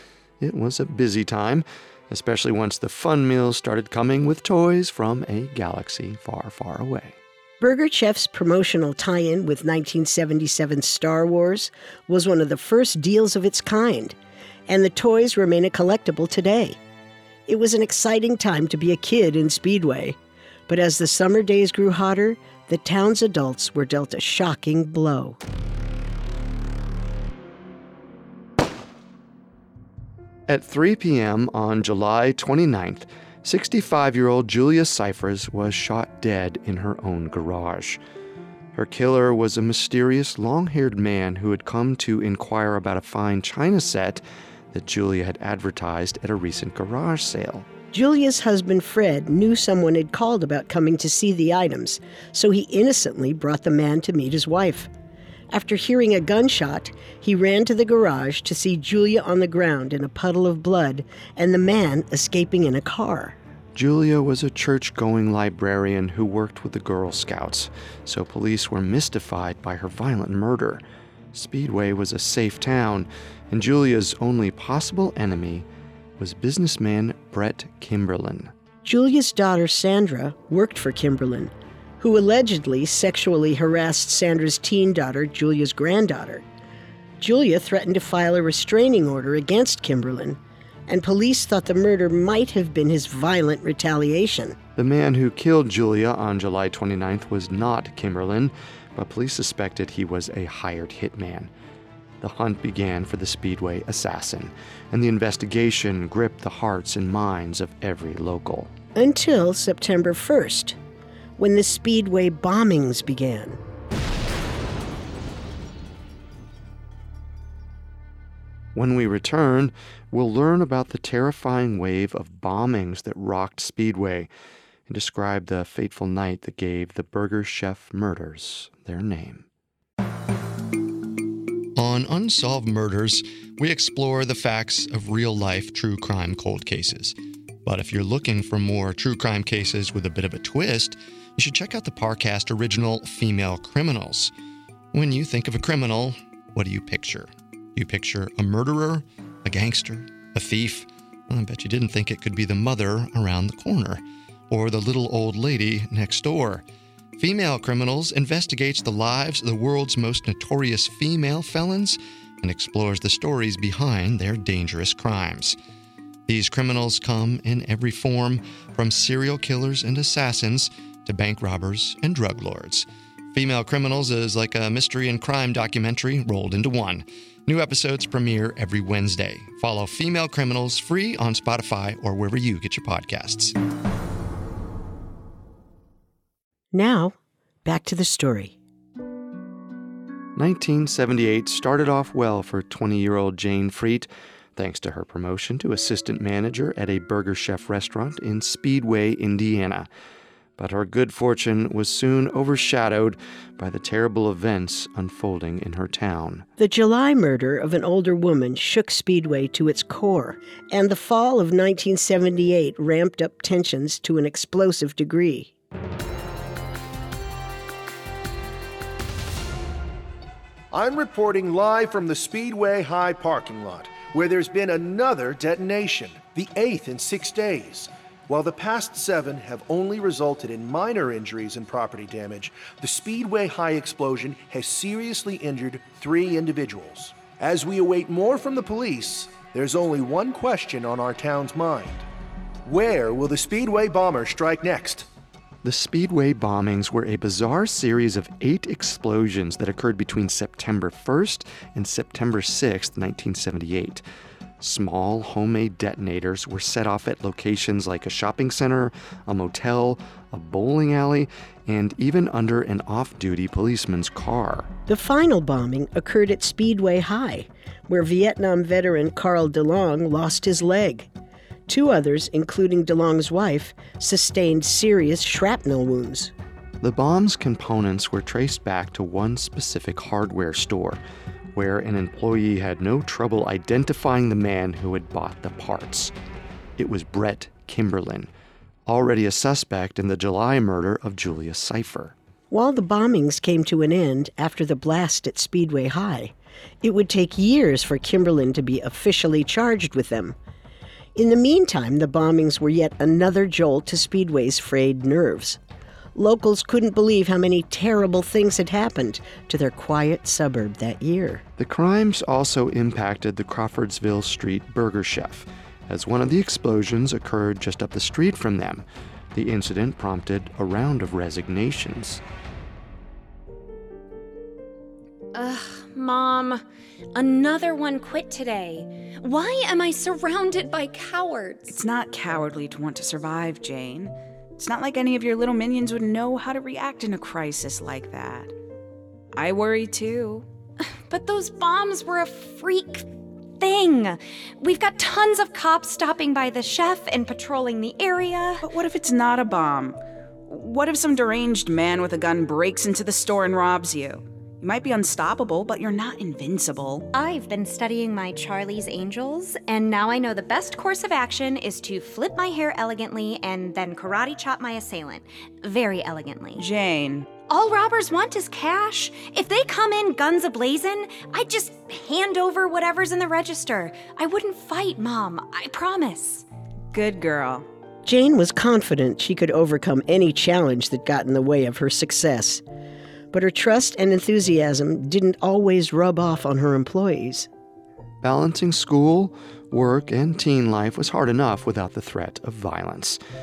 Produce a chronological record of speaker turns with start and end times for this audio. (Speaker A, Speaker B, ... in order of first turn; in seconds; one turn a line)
Speaker A: 0.4-7.2
Speaker B: 7.6-14.1
Speaker B: 14.7-16.8
Speaker B: 17.5-25.4
Speaker A: 30.5-38.0
Speaker A: 38.7-47.6
Speaker B: 47.9-54.9
Speaker B: 55.5-63.4
Speaker A: 63.7-70.8
Speaker A: 71.3-75.7
Speaker A: 76.2-78.5
Speaker B: 78.8-86.4
Speaker B: 87.2-94.6
Speaker A: 94.8-101.5
Speaker A: 102.2-108.7
Speaker B: 108.9-110.8
Speaker B: 111.4-113.6
Speaker A: 118.7-124.3
Speaker A: 124.9-129.4
Speaker A: 131.8-144.3
Speaker A: 144.9-156.6
Speaker A: 157.2-165.6
Speaker A: 166.3-183.5
Speaker B: 186.7-188.6
Speaker A: 190.3-199.9
Speaker A: 200.6-206.4
Speaker B: 206.6-215.5
Speaker C: 220.7-242.0
Speaker C: 242.6-245.1
Speaker A: 245.6-254.0
Speaker A: 254.6-264.7
Speaker B: 264.9-271.1
Speaker B: 271.7-276.3
Speaker A: 276.8-281.0
Speaker A: 281.5-286.1
Speaker A: 286.8-288.3
Speaker A: 288.9-292.1
Speaker B: 292.5-300.4
Speaker B: 301.1-305.6
Speaker B: 306.1-311.4
Speaker A: 311.6-322.2
Speaker D: 325.3-326.6
Speaker D: 327.1-331.7
Speaker E: 331.7-338.5
Speaker E: 339.3-340.4
Speaker D: 340.9-343.1
Speaker D: 343.6-348.6
Speaker E: 348.6-357.1
Speaker D: 357.1-366.6
Speaker E: 366.6-367.3
Speaker D: 367.5-376.4
Speaker E: 376.9-377.6
Speaker B: 378.0-382.6
Speaker B: 383.3-387.5
Speaker A: 388.2-393.2